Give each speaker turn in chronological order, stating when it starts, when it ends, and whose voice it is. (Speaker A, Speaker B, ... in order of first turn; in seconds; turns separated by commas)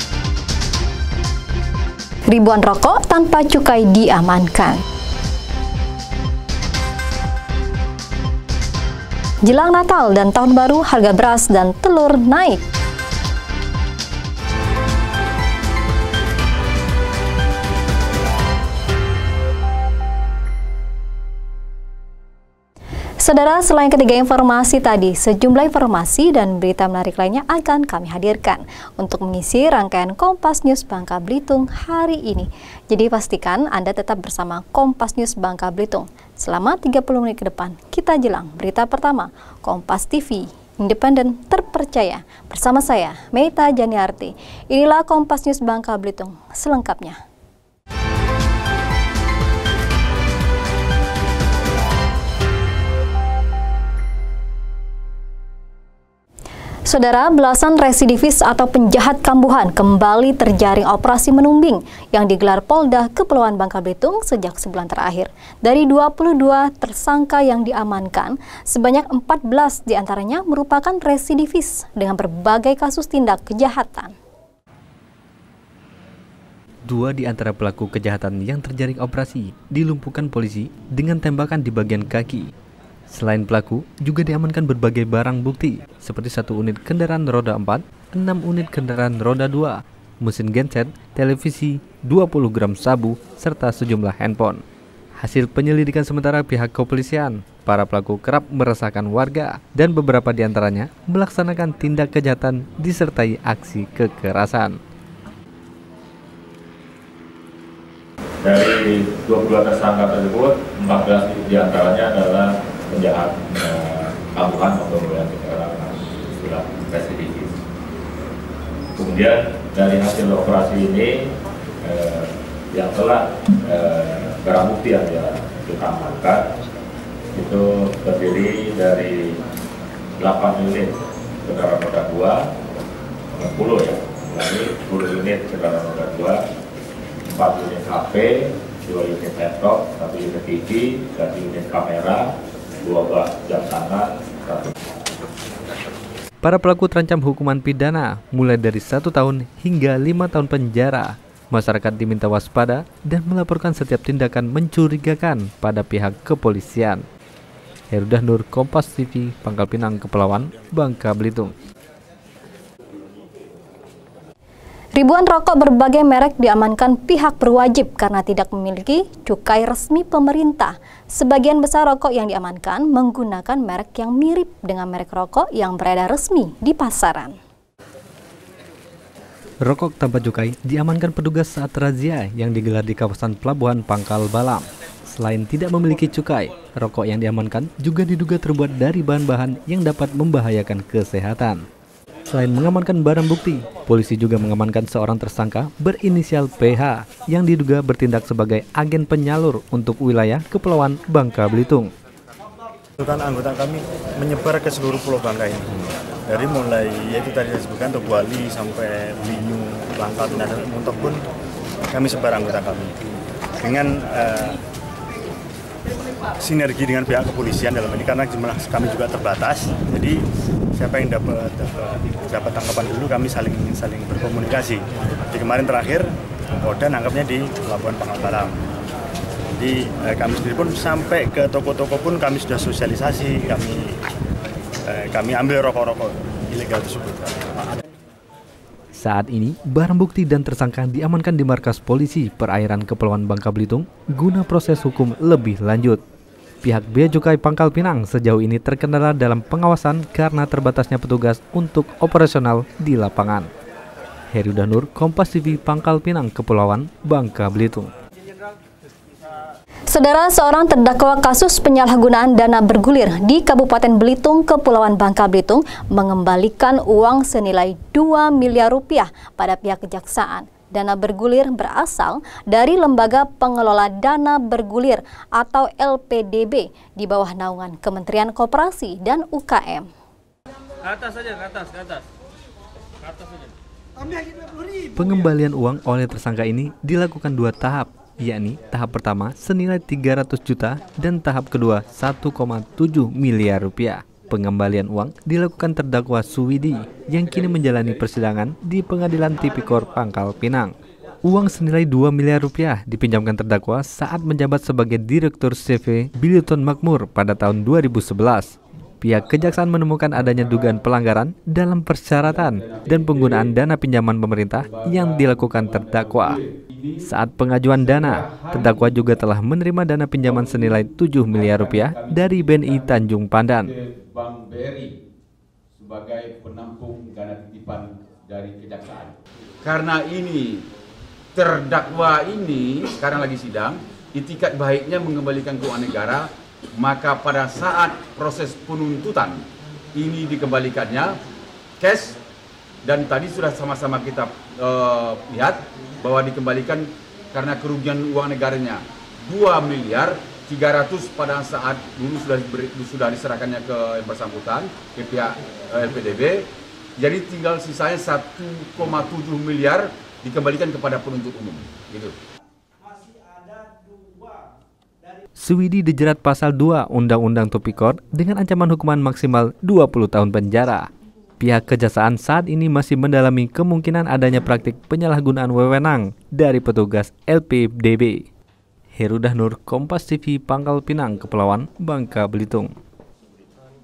Speaker A: 2.3-4.8, Speaker A: 9.4-12.6, Speaker A: 23.2-47.2, Speaker A: 56.9-74.1, Speaker B: 76.9-82.5, Speaker B: 83.1-94.6, Speaker B: 95.2-104.8, Speaker C: 108.4-117.6, Speaker C: 119.0-121.2, Speaker C: 121.8-126.5, Speaker C: 127.3-129.4, Speaker C: 130.2-132.4, Speaker C: 133.3-136.4, Speaker C: 137.2-142.3, Speaker C: 142.8-144.7, Speaker B: 146.4-157.0, Speaker B: 157.9-161.5, Speaker A: 165.0-177.4, Speaker B: 179.7-191.6, Speaker B: 192.3-201.9, Speaker D: 203.0-211.2, Speaker D: 211.9-212.9, Speaker D: 213.6-214.6, Speaker D: 216.4-220.2, Speaker D: 220.8-226.1, Speaker D: 226.6-228.6, Speaker D: 229.6-233.9, Speaker D: 234.9-237.5, Speaker B: 239.0-246.0, Speaker B: 246.6-253.5, Speaker B: 254.3-257.9, Speaker A: 259.9-279.9, Speaker B: 285.0-300.8, Speaker B: 301.3-316.4, Speaker E: 312.1-313.5, Speaker E: 314.7-317.1, Speaker B: 317.0-323.7, Speaker E: 317.8-319.1, Speaker E: 320.2-323.0, Speaker E: 323.6-325.0, Speaker E: 325.8-330.6, Speaker E: 331.4-339.4, Speaker E: 339.9-341.2, Speaker E: 341.8-342.2, Speaker E: 342.8-356.4, Speaker E: 357.0-362.1, Speaker B: 365.4-370.9, Speaker B: 371.4-378.2, Speaker B: 379.0-382.7